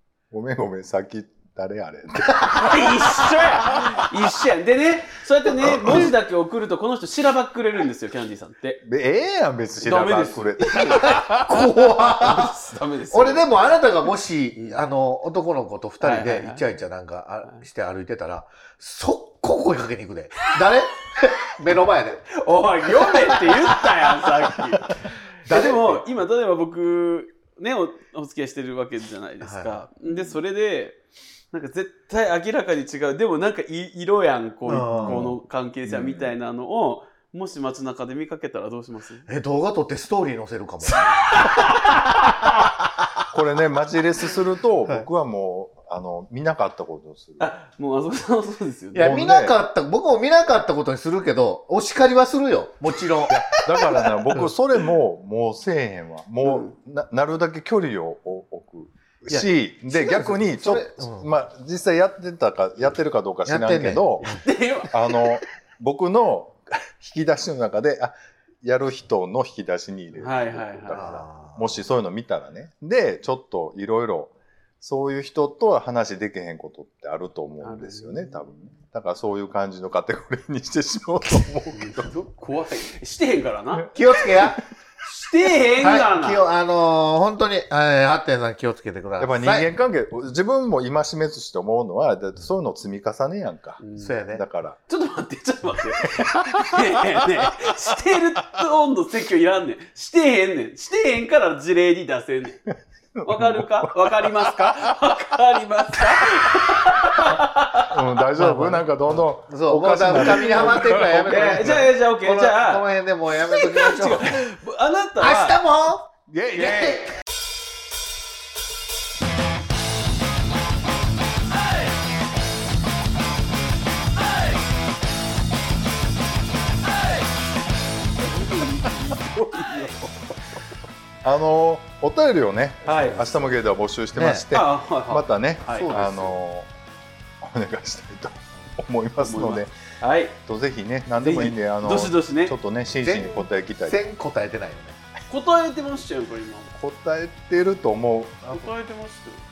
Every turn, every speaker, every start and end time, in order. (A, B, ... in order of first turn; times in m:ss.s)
0:00.3-0:04.0 A
0:02.5-0:08.8 B
0:05.6-0:06.1 A
0:08.8-0:12.2 A
0:09.8-0:11.2 B
0:10.7-0:12.6 C
0:12.1-0:13.6 B
0:13.1-0:23.8 C
0:16.0-0:16.6 B
0:22.4-0:31.0 B
0:25.4-0:26.0 C
0:29.4-0:29.8 C
0:30.0-0:30.4 A
0:31.5-0:39.3 B
0:34.6-0:35.3 C
0:34.9-0:36.3 A
0:39.3-0:41.9 C
0:40.9-0:42.6 B
0:43.3-0:47.5 A
0:47.4-0:49.2 B
0:48.9-0:54.5 C
0:49.0-0:49.6 A
0:53.3-1:04.4 A
0:56.4-0:56.7 B
0:59.3-1:01.3 C
1:03.4-1:04.4 C
1:04.2-1:05.4 B
1:04.9-1:22.1 A
1:10.2-1:11.2 B
1:10.9-1:11.7 C
1:17.6-1:18.4 B
1:21.7-1:23.9 B
1:23.9-1:24.6 C
1:25.0-1:26.4 B
1:25.8-1:29.7 C
1:29.2-1:34.8 A
1:33.8-1:34.2 B
1:34.0-1:34.4 C
1:34.9-1:42.6 B
1:43.2-1:45.0 A
1:43.2-1:48.0 B
1:47.2-1:51.9 A
1:48.3-1:54.4 C
1:50.2-1:55.6 B
1:55.2-1:57.1 C
1:56.3-1:57.1 A
1:56.6-1:57.0 B
2:08.2-2:10.4 B
2:11.2-2:16.7 A
2:12.8-2:13.3 B
2:14.1-2:14.4 C
2:14.5-2:16.3 B
2:15.7-2:16.4 C
2:17.4-2:19.7 A
2:19.2-2:20.4 B
2:20.4-2:24.1 A
2:21.2-2:22.6 B
2:23.0-2:25.0 C
2:25.3-2:26.8 B
2:26.8-2:28.5 A
2:28.4-2:29.4 B